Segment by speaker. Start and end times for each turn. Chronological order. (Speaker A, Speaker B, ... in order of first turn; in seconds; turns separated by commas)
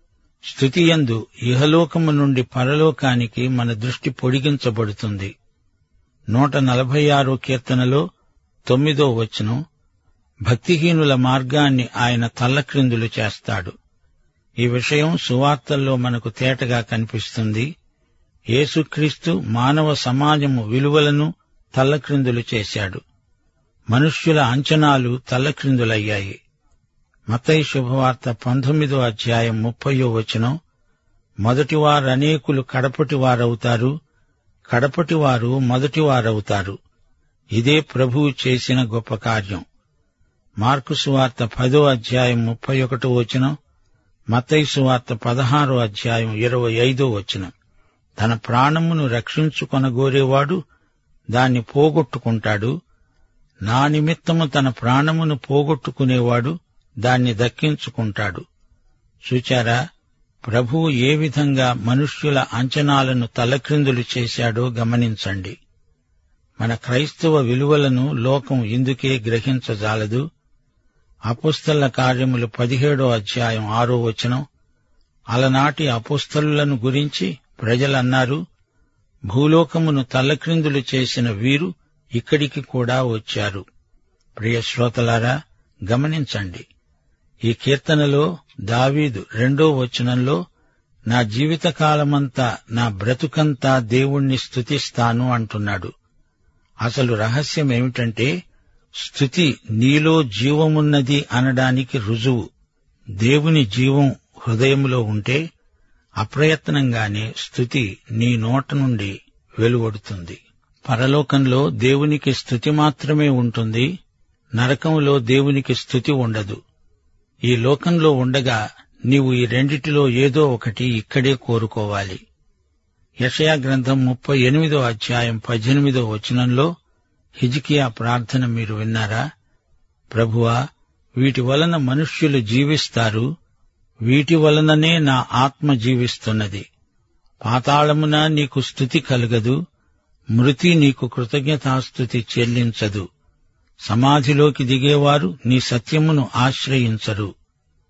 Speaker A: 0.5-5.3, Speaker A: 6.3-8.0, Speaker A: 8.7-9.6, Speaker A: 10.5-13.7, Speaker A: 14.6-17.7, Speaker A: 18.5-23.0, Speaker A: 23.9-26.4, Speaker A: 27.3-30.6, Speaker A: 31.4-33.9, Speaker A: 34.7-36.8, Speaker A: 37.5-39.6, Speaker A: 40.6-43.5, Speaker A: 44.3-47.5, Speaker A: 48.2-50.6, Speaker A: 51.3-52.7, Speaker A: 53.7-58.4, Speaker A: 59.3-59.8, Speaker A: 60.5-65.6, Speaker A: 66.6-70.2, Speaker A: 71.3-74.4, Speaker A: 75.3-78.4, Speaker A: 79.3-83.6, Speaker A: 84.4-85.3, Speaker A: 85.9-86.7, Speaker A: 87.5-90.4, Speaker A: 91.1-95.9, Speaker A: 96.8-98.3, Speaker A: 99.0-102.5, Speaker A: 103.2-105.4, Speaker A: 106.2-113.9, Speaker A: 114.6-116.6, Speaker A: 117.5-122.2, Speaker A: 123.2-126.7, Speaker A: 127.4-129.2, Speaker A: 130.1-130.6, Speaker A: 131.2-133.3, Speaker A: 134.1-136.7, Speaker A: 137.4-139.6, Speaker A: 140.4-143.1, Speaker A: 143.9-147.3